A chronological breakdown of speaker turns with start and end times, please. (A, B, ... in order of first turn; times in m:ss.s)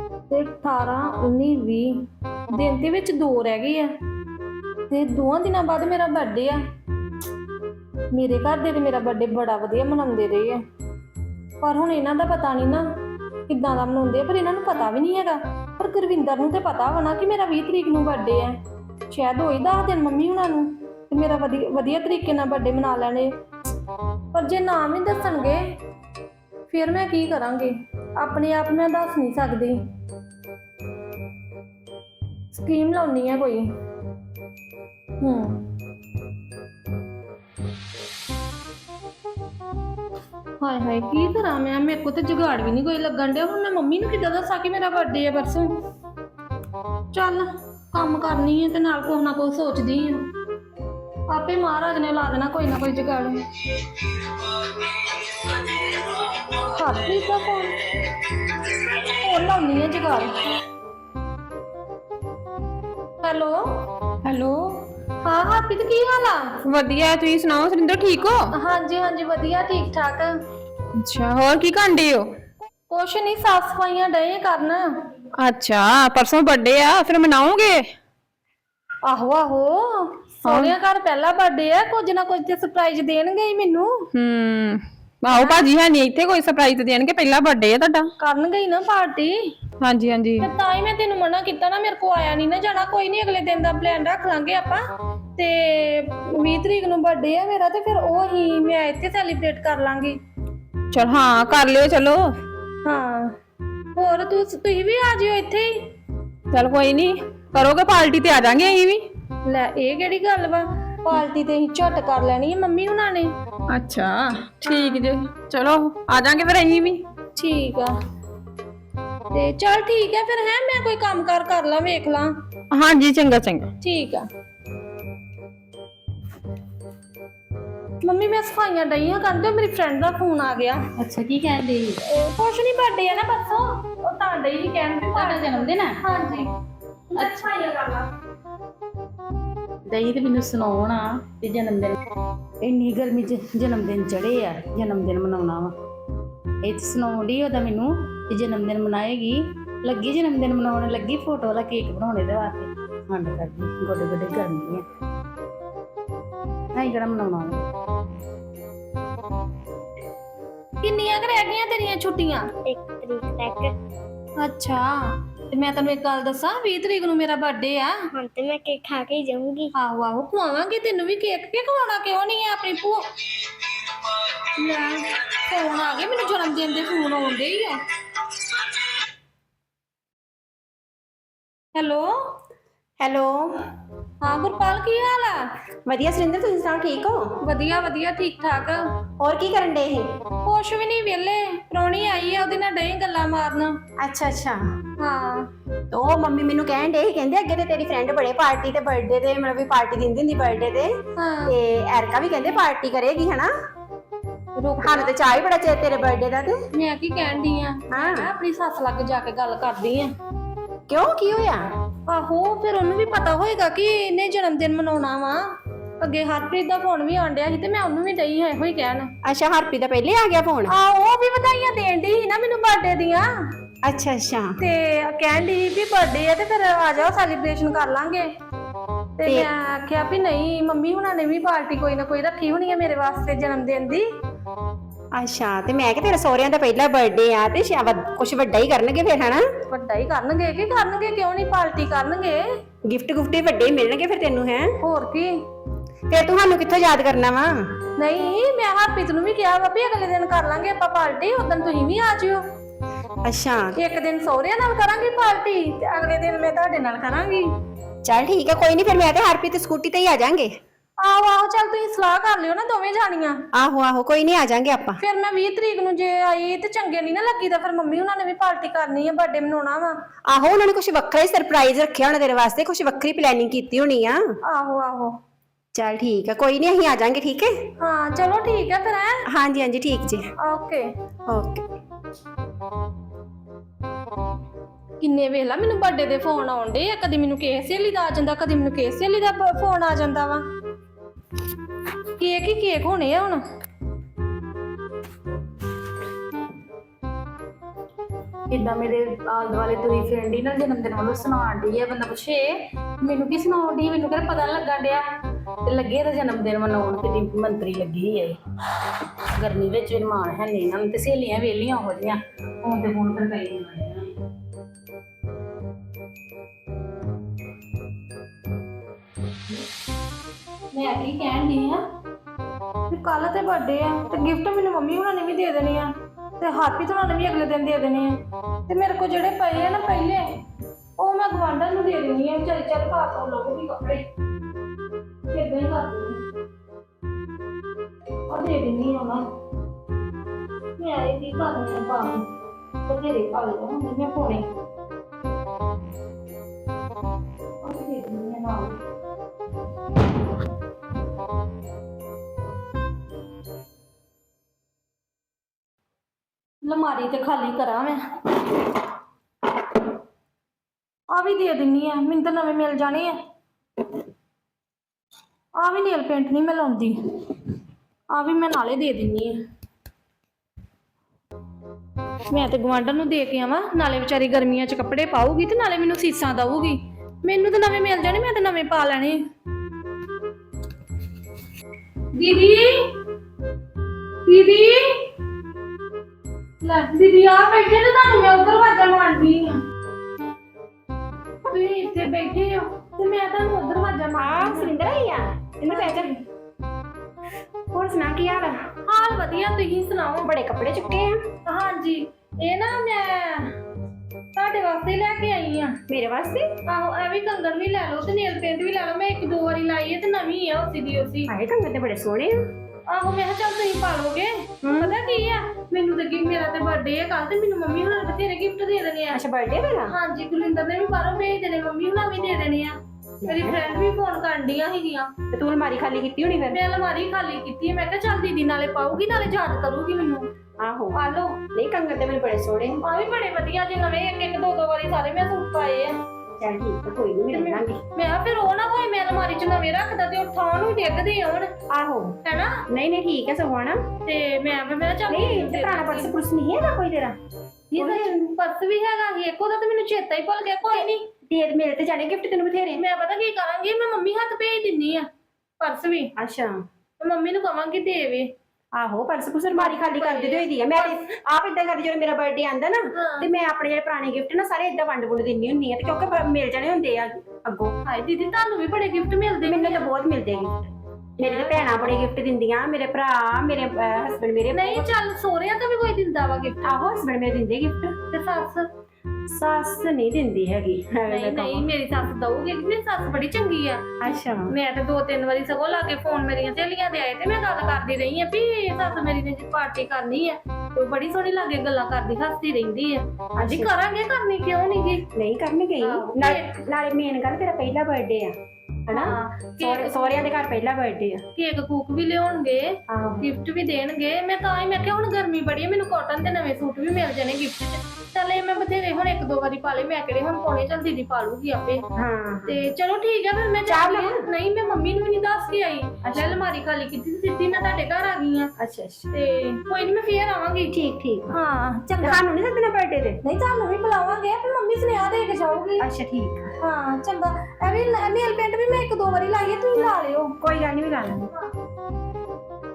0:00.3-0:03.9 A
0:04.9-0:06.6 A
0:08.1-0:10.6 A
0:11.6-0:12.8 A
0:13.5-0:18.5 A
0:19.1-0:23.3 A
0:24.3-0:25.6 A
0:26.7-0:29.8 A
0:32.5-0:33.6 A
0:35.2-0:35.6 A
0:40.6-0:45.7 A
0:47.1-0:50.2 A
0:51.3-0:53.4 A
0:56.4-0:57.8 A
0:58.8-1:00.3 A
1:03.2-1:03.6 A
1:04.2-1:04.8 B
1:05.2-1:06.5 A
1:06.6-1:08.5 B
1:08.6-1:10.3 A
1:11.0-1:12.3 B
1:12.9-1:14.8 A
1:15.4-1:17.9 B
1:19.0-1:23.9 A
1:20.4-1:20.7 B
1:24.1-1:28.1 B
1:25.3-1:25.7 A
1:28.2-1:29.3 A
1:29.8-1:30.5 B
1:30.4-1:34.8 A
1:35.4-1:40.2 A
1:40.9-1:42.3 B
1:42.8-1:43.3 A
1:44.0-1:45.7 A
1:46.5-1:49.0 B
1:49.4-1:53.3 A
1:53.7-1:57.0 B
1:54.6-1:55.1 A
1:57.4-1:57.9 A
1:59.3-2:02.3 A
2:02.7-2:03.7 B
2:03.8-2:04.2 A
2:08.0-2:10.8 A
2:11.0-2:12.0 C
2:12.0-2:16.5 A
2:15.1-2:16.0 C
2:17.1-2:18.1 A
2:19.9-2:22.0 C
2:22.6-2:25.7 C
2:26.6-2:34.8 C
2:36.7-2:37.6 C
2:40.8-2:42.4 A
2:42.6-2:43.8 D
2:44.4-2:48.0 A
2:48.1-2:49.7 D
2:49.8-2:53.0 A
2:54.6-2:57.8 A
3:01.7-3:02.1 A
3:03.0-3:03.5 E
3:04.2-3:05.4 A
3:05.9-3:07.2 E
3:07.4-3:08.8 A
3:09.2-3:10.1 E
3:10.4-3:13.7 A
3:14.0-3:14.6 E
3:15.0-3:15.5 A
3:15.9-3:20.9 E
3:21.2-3:21.5 A
3:21.5-3:23.5 E
3:24.6-3:25.3 A
3:24.8-3:26.6 E
3:26.7-3:30.1 A
3:27.9-3:28.3 E
3:30.9-3:31.6 E
3:32.1-3:35.4 A
3:36.0-3:39.1 A
3:39.2-3:40.7 E
3:40.7-3:43.2 A
3:43.8-3:44.5 E
3:44.6-3:48.3 A
3:49.2-3:54.0 A
3:55.2-3:59.4 E
3:59.7-4:02.4 A
4:02.9-4:04.7 E
4:04.8-4:05.3 A
4:06.1-4:07.6 E
4:08.0-4:12.4 A
4:13.2-4:13.7 E
4:13.8-4:17.5 A
4:18.0-4:20.5 E
4:21.0-4:23.4 A
4:23.5-4:25.0 E
4:25.0-4:29.9 A
4:30.3-4:34.2 E
4:34.5-4:35.1 A
4:35.7-4:37.5 E
4:37.8-4:39.2 A
4:39.3-4:40.2 E
4:40.4-4:40.8 A
4:41.3-4:41.6 E
4:45.0-4:50.4 A
4:52.2-4:53.4 A
4:58.5-5:02.4 C
5:03.0-5:05.0 C
5:05.6-5:08.4 C
5:09.4-5:14.1 C
5:20.7-5:21.8 A
5:22.9-5:30.2 A
5:31.0-5:34.0 A
5:35.3-5:36.2 A
5:38.3-5:39.2 A
5:40.8-5:42.2 A
5:42.8-5:44.4 A
5:47.6-5:48.8 A
5:56.6-5:58.0 A
6:01.1-6:03.2 A
6:05.6-6:07.0 A
6:08.1-6:09.3 A
6:12.3-6:19.2 A
6:22.1-6:22.9 A
6:24.2-6:25.1 A
6:26.6-6:29.6 A
6:31.4-6:34.7 A
6:34.2-6:36.1 E
6:35.7-6:36.2 A
6:37.7-6:38.6 E
6:38.9-6:40.3 A
6:40.2-6:41.2 E
6:41.4-6:43.5 A
6:44.4-6:45.7 A
6:45.9-6:46.4 E
6:46.7-6:51.3 A
6:51.3-6:52.4 E
6:52.9-6:59.2 A
6:54.6-6:54.9 E
6:59.1-6:59.9 E
6:59.9-7:02.7 A
7:03.2-7:03.7 E
7:03.3-7:05.1 A
7:05.3-7:06.6 E
7:06.5-7:10.2 A
7:10.6-7:10.9 E
7:10.9-7:11.4 A
7:11.5-7:12.8 E
7:12.8-7:15.9 A
7:16.4-7:17.8 E
7:17.3-7:21.5 A
7:21.7-7:22.2 E
7:22.2-7:22.6 A
7:22.7-7:23.8 E
7:24.0-7:26.1 A
7:25.1-7:27.2 E
7:27.7-7:31.0 A
7:27.8-7:28.1 E
7:30.7-7:32.8 E
7:32.8-7:35.1 A
7:35.6-7:36.1 A
7:36.2-7:36.6 E
7:37.0-7:38.2 A
7:38.7-7:47.7 E
7:39.5-7:41.0 A
7:42.9-7:43.3 A
7:47.8-7:49.8 A
7:49.5-7:54.8 E
7:51.2-7:51.6 A
7:54.5-7:56.7 A
7:56.6-7:57.9 E
7:58.1-7:58.7 A
7:59.3-8:01.7 E
8:01.1-8:03.8 A
8:04.0-8:04.5 E
8:04.5-8:15.0 A
8:13.4-8:13.7 E
8:15.1-8:18.3 E
8:15.8-8:16.6 A
8:18.9-8:21.2 E
8:18.9-8:20.2 A
8:21.4-8:31.8 A
8:22.9-8:23.3 E
8:31.9-8:32.6 E
8:32.5-8:38.5 A
8:33.7-8:34.2 E
8:36.0-8:36.4 E
8:38.6-8:39.1 E
8:39.1-8:40.7 A
8:40.7-8:41.3 E
8:41.3-8:42.2 A
8:42.0-8:43.2 E
8:43.2-8:45.9 A
8:45.8-8:46.5 E
8:46.6-8:50.3 A
8:50.4-8:51.3 E